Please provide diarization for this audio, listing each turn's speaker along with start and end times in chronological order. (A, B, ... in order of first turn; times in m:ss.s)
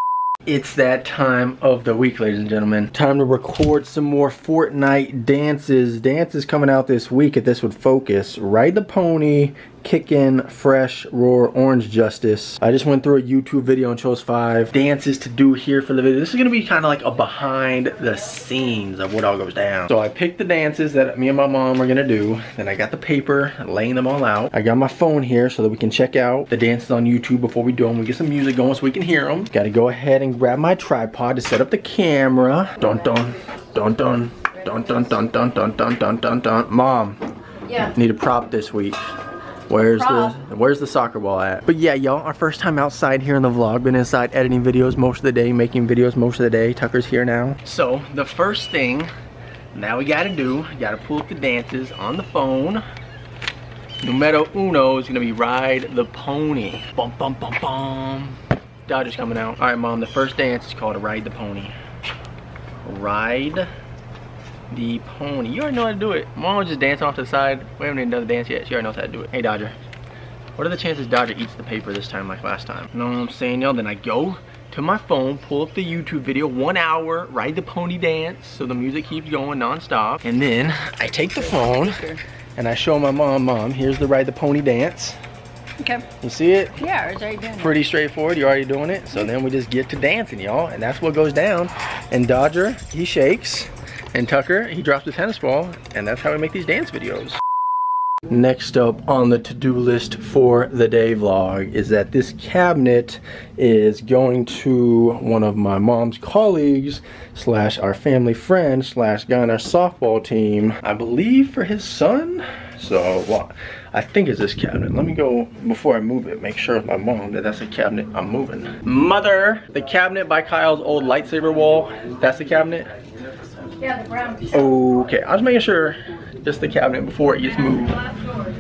0:00.5-0:37.2 A
0:37.7-0:37.9 B
0:37.8-0:39.0 A
0:39.7-0:49.1 A
0:39.9-0:40.4 B
0:49.7-0:52.8 A
0:54.0-1:01.8 A
1:02.8-1:03.7 A
1:04.7-1:09.8 A
1:10.6-1:22.0 A
1:21.4-1:22.2 B
1:22.6-1:25.2 A
1:25.8-1:26.1 B
1:26.2-1:26.8 A
1:26.8-1:27.8 B
1:27.6-1:37.4 A
1:38.3-2:02.9 A
2:03.8-2:04.7 B
2:04.5-2:08.0 A